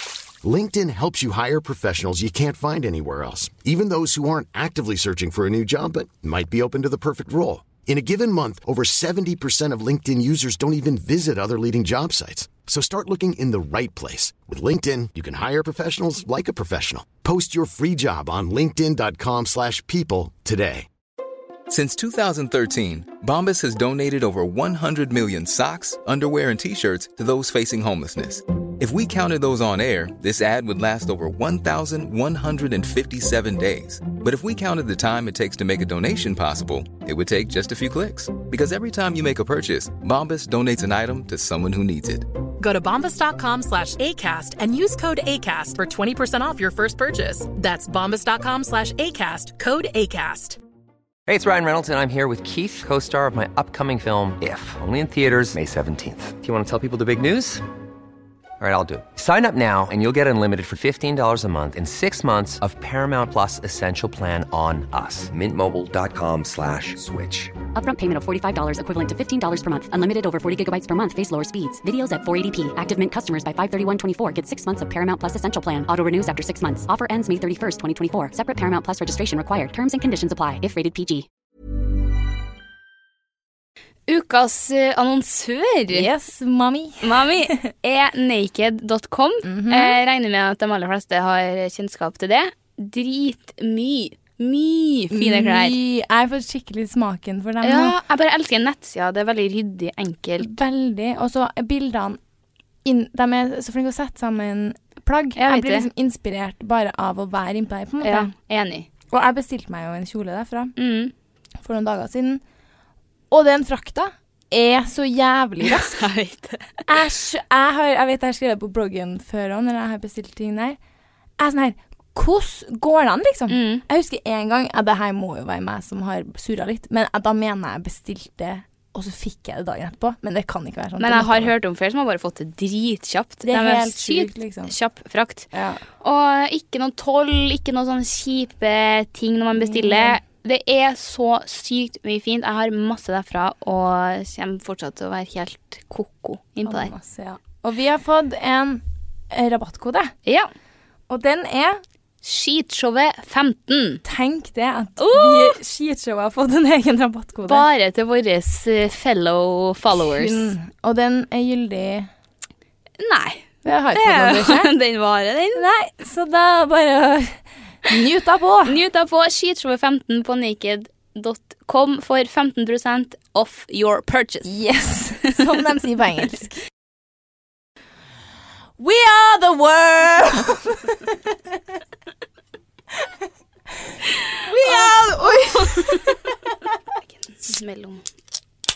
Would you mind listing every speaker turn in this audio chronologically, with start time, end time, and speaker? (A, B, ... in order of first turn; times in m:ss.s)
0:00.4-0:20.9 A
0:21.7-0:42.2 B
0:42.6-0:50.6 C
0:51.3-0:57.6 D
0:58.6-1:07.6 D
1:07.7-1:21.3 E
1:24.1-1:26.1 F
1:25.9-1:27.6 G
1:27.0-1:35.8 F
1:29.4-1:30.0 G
1:35.1-1:38.0 G
1:37.6-1:40.5 F
1:40.4-1:42.2 G
1:42.8-1:48.3 G
1:45.4-1:45.9 F
1:48.0-1:48.9 F
1:49.1-1:50.7 G
1:50.8-1:51.1 F
1:51.6-1:52.4 G
1:53.3-1:56.0 G
1:55.6-1:56.8 F
1:56.9-2:00.8 G
2:01.4-2:11.5 G
2:03.5-2:03.8 F
2:11.0-2:15.5 F
2:13.4-2:14.7 G
2:15.5-2:15.8 G
2:16.0-2:26.9 F
2:19.6-2:20.2 G
2:26.6-2:30.1 G
2:31.1-2:31.8 G
2:32.2-2:34.0 F
2:34.0-2:37.7 G
2:35.0-2:35.6 F
2:37.4-2:40.5 F
2:39.9-2:42.1 G
2:43.0-2:45.6 F
2:43.6-2:44.7 G
2:45.5-2:48.8 G
2:48.6-2:54.5 F
2:54.4-2:56.6 G
2:58.8-3:01.2 G
3:04.4-3:06.4 F
3:04.4-3:06.3 G
3:07.1-3:08.0 F